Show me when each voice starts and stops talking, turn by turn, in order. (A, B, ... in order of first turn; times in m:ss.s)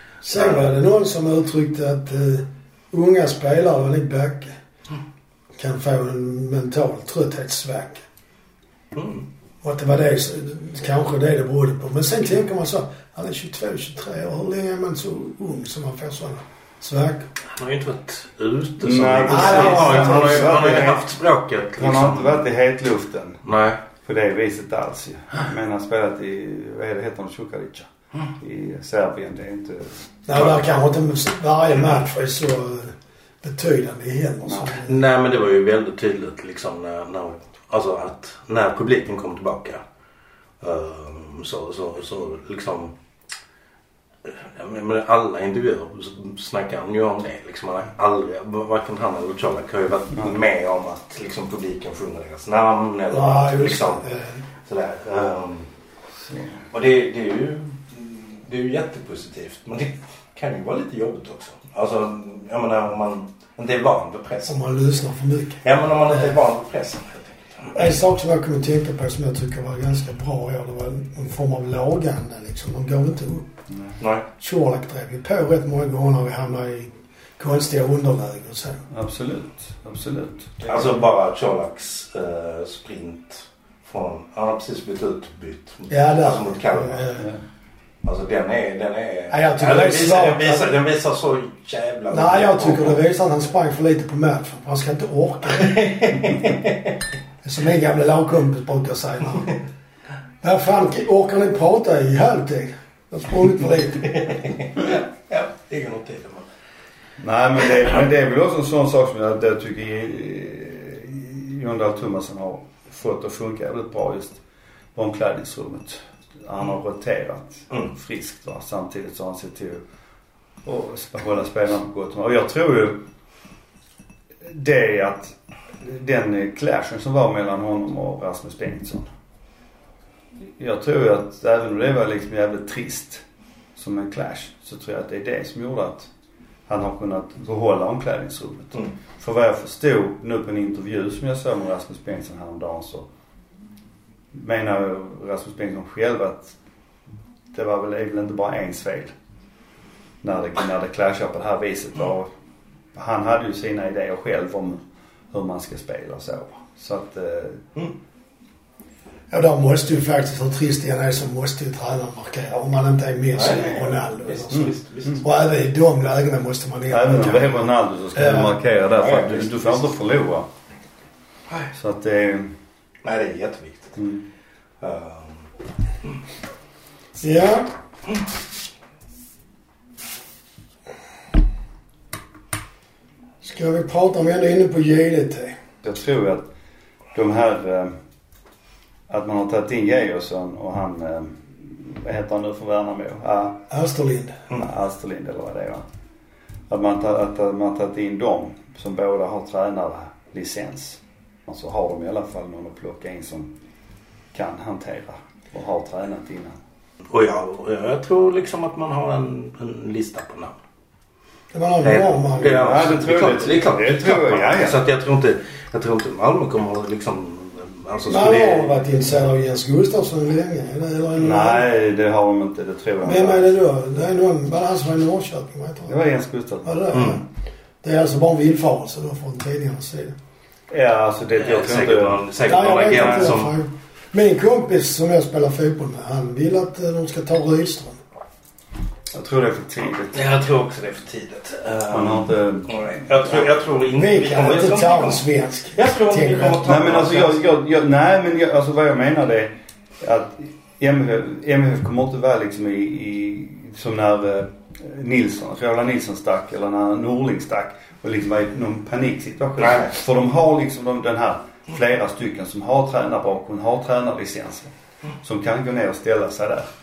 0:00.2-0:04.5 A
0:00.4-0:00.6 B
0:05.6-0:08.0 A
0:08.9-0:09.2 B
0:09.6-0:17.3 A
0:17.6-0:22.4 B
0:18.8-0:21.0 C
0:19.3-0:20.9 A
0:21.8-0:23.4 C
0:23.4-0:23.8 B
0:24.0-0:27.9 C
0:28.4-0:30.5 C
0:30.3-0:35.0 A
0:34.8-0:39.8 B
0:40.6-0:42.9 B
0:44.2-0:54.0 B
0:53.1-0:54.4 A
0:54.6-0:55.7 B
0:56.2-0:56.6 C
0:56.7-1:04.5 B
1:04.4-1:05.6 A
1:05.6-1:07.8 B
1:07.7-1:13.5 A
1:14.0-1:14.2 B
1:14.4-1:18.8 A
1:18.9-1:20.9 C
1:20.6-1:27.1 B
1:25.9-1:27.3 A
1:28.0-1:33.0 B
1:29.3-1:30.7 A
1:32.1-1:35.9 A
1:35.5-1:36.8 B
1:37.4-1:39.6 A
1:40.4-1:44.4 A
1:44.2-1:46.4 B
1:47.2-1:54.4 C
1:54.9-1:59.8 C
2:00.6-2:03.0 C
2:04.4-2:09.1 C
2:10.6-2:13.2 C
2:13.7-2:16.1 C
2:16.7-2:23.1 C
2:24.3-2:26.5 C
2:27.5-2:29.1 C
2:30.2-2:32.3 C
2:32.9-2:37.6 C
2:39.3-2:44.7 A
2:43.3-2:45.2 B
2:44.5-2:45.2 C
2:45.2-2:48.5 A
2:46.9-2:50.5 C
2:49.0-2:49.8 B
2:51.7-2:52.5 C
2:53.0-2:54.0 B
2:54.0-2:54.2 C
2:54.8-2:55.4 B
2:57.2-2:57.7 A
3:03.4-3:05.5 A
3:05.8-3:06.5 C
3:07.1-3:07.9 C
3:09.1-3:13.6 C
3:13.7-3:14.4 A
3:14.5-3:15.8 C
3:16.7-3:23.5 C
3:24.3-3:26.6 C
3:27.1-3:30.5 B
3:31.5-3:32.9 A
3:31.8-3:38.8 B
3:32.4-3:34.8 C
3:38.1-3:41.6 A
3:41.2-3:43.5 C
3:43.0-3:46.0 A
3:45.9-3:46.9 C
3:46.6-3:47.2 A
3:46.9-3:47.2 B
3:47.8-3:50.2 A
3:50.7-3:53.3 C
3:51.4-3:53.5 B
3:52.4-3:58.0 A
3:59.1-4:00.2 C
4:00.1-4:07.5 B
4:01.9-4:03.2 C
4:04.0-4:06.6 A
4:06.6-4:26.7 C
4:19.6-4:19.9 B